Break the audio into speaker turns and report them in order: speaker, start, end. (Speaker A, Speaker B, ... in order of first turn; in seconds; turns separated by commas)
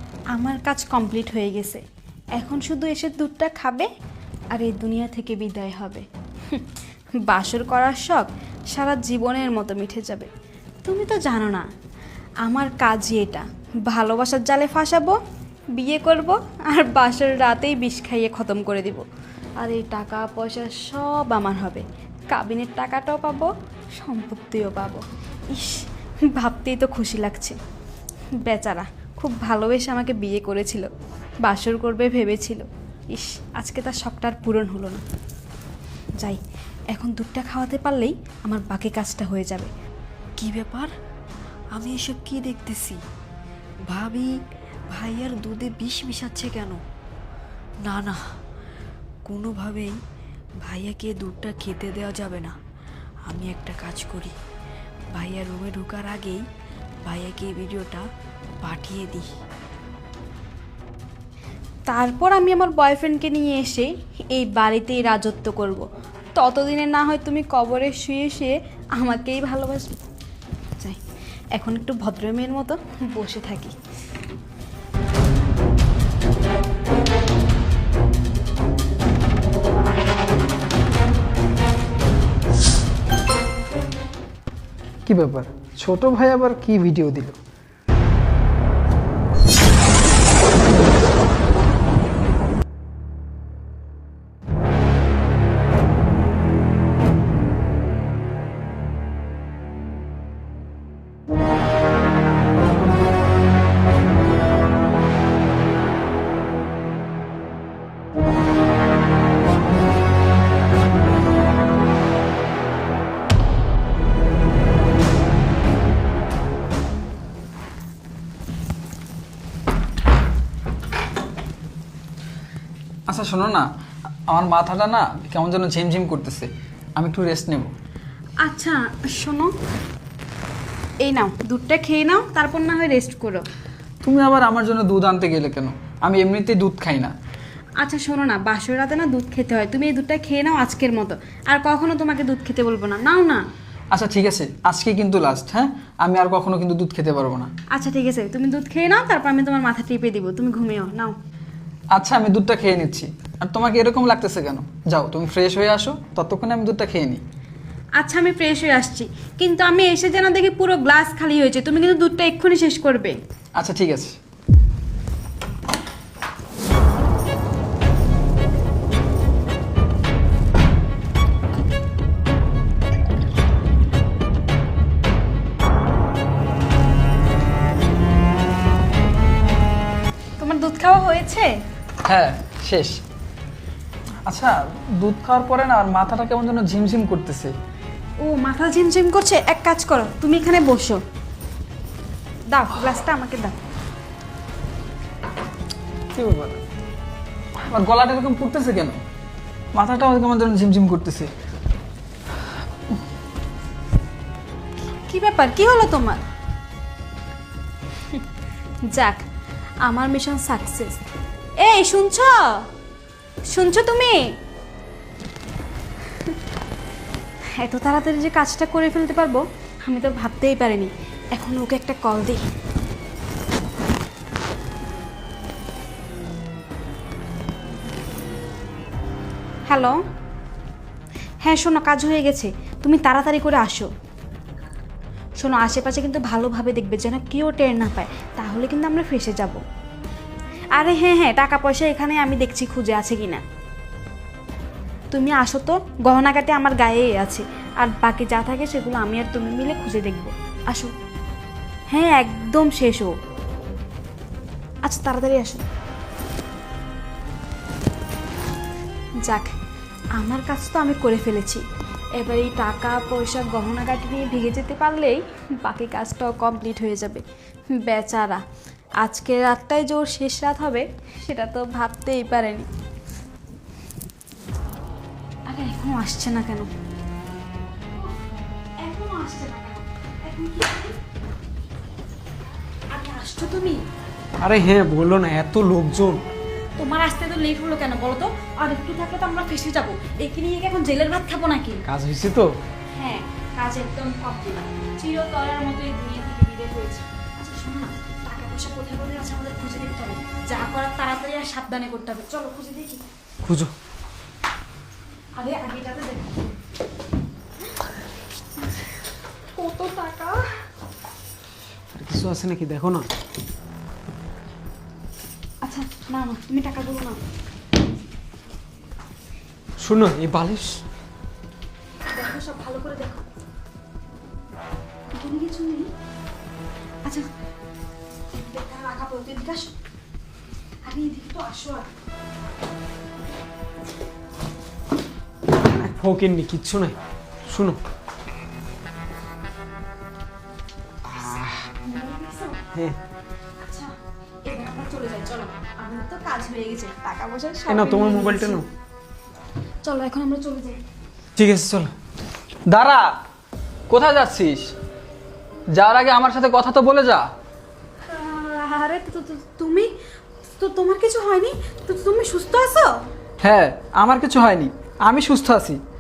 Speaker A: 0.3-1.8, Speaker A: 2.4-3.9, Speaker A: 4.5-6.7, Speaker A: 7.2-10.3, Speaker A: 10.8-11.7, Speaker A: 12.4-15.2, Speaker A: 15.8-19.1, Speaker A: 19.6-27.6, Speaker A: 28.4-30.9, Speaker A: 31.4-35.0, Speaker A: 36.9-39.7, Speaker B: 40.4-40.9, Speaker B: 41.8-43.0, Speaker B: 43.9-44.3, Speaker B: 44.9-46.8, Speaker B: 47.9-48.2, Speaker B: 49.3-50.0, Speaker B: 50.7-52.5, Speaker B: 53.3-54.3, Speaker B: 55.2-56.4, Speaker B: 57.1-58.0, Speaker B: 58.7-59.2, Speaker A: 61.9-69.9, Speaker A: 71.6-73.8, Speaker C: 85.1-87.4, Speaker C: 123.1-123.7, Speaker C: 124.3-127.7, Speaker A: 128.4-129.6, Speaker A: 131.0-133.4, Speaker C: 134.0-137.1, Speaker A: 137.8-143.4, Speaker C: 143.9-147.5, Speaker A: 147.7-151.2, Speaker C: 151.9-157.2, Speaker A: 158.0-163.2, Speaker C: 163.6-164.2, Speaker A: 180.4-181.6, Speaker C: 182.1-183.0, Speaker C: 184.3-187.5, Speaker A: 188.2-191.0, Speaker A: 192.5-193.6, Speaker C: 196.2-196.6, Speaker D: 196.2-196.5, Speaker C: 197.6-199.0, Speaker C: 199.7-201.3, Speaker A: 205.0-206.2, Speaker A: 208.9-209.2, Speaker A: 209.8-211.0, Speaker A: 211.6-212.7, Speaker A: 213.5-214.3, Speaker A: 217.6-222.4, Speaker A: 229.7-230.0, Speaker A: 231.4-233.9, Speaker A: 235.4-239.6, Speaker A: 240.8-243.4, Speaker A: 245.1-250.9, Speaker A: 251.9-253.2, Speaker A: 254.8-255.6, Speaker A: 259.2-259.5, Speaker A: 260.2-261.6, Speaker A: 262.2-268.4, Speaker A: 269.0-272.7, Speaker A: 275.5-276.7, Speaker A: 278.8-281.0, Speaker A: 282.9-283.8, Speaker D: 284.4-286.2, Speaker A: 286.8-291.8, Speaker D: 291.9-292.6, Speaker A: 292.9-303.1, Speaker D: 303.4-303.7, Speaker A: 305.4-306.6, Speaker A: 308.6-308.9, Speaker A: 309.6-310.5, Speaker D: 311.9-313.1, Speaker A: 315.6-317.2, Speaker D: 319.8-320.8, Speaker A: 322.1-323.2, Speaker A: 325.1-325.9, Speaker A: 328.3-329.7, Speaker A: 330.8-331.9, Speaker D: 335.6-337.8, Speaker D: 341.1-341.5, Speaker A: 341.8-342.6, Speaker A: 343.6-343.9, Speaker A: 344.5-348.6, Speaker D: 347.7-348.7, Speaker A: 349.8-350.8, Speaker D: 351.4-351.9, Speaker C: 352.7-353.2, Speaker C: 353.9-354.7, Speaker C: 355.7-357.3, Speaker A: 358.1-359.9, Speaker A: 360.5-363.1, Speaker C: 363.4-365.8